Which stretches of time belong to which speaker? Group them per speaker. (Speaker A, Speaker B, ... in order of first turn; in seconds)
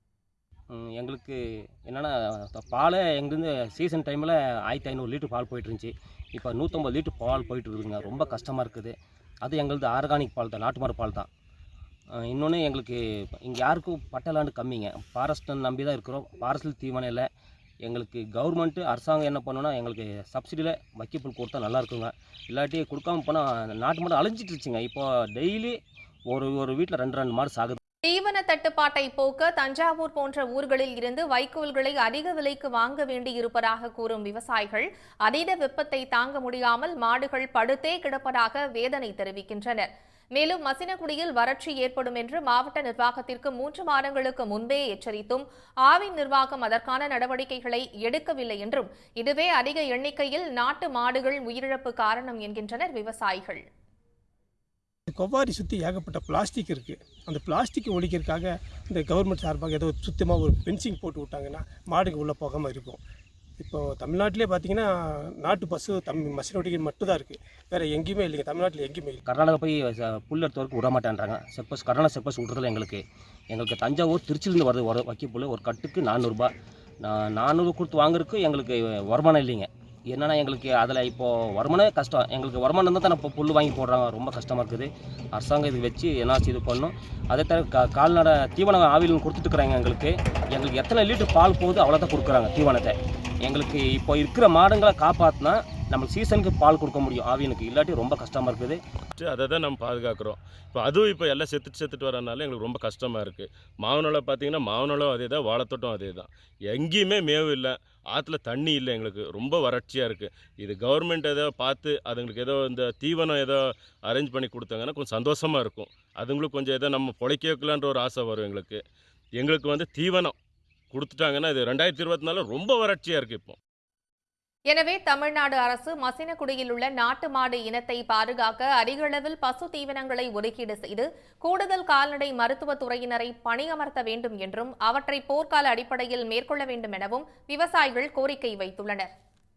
Speaker A: 0.7-8.9, 9.4-11.3, 12.1-17.3, 17.8-25.8, 26.3-27.8, 69.2-76.5, 77.0-98.8
Speaker B: 28.0-53.6, 124.7-139.1
Speaker C: 55.1-63.0, 63.6-69.2
Speaker D: 99.2-118.8, 119.4-120.3, 120.9-123.6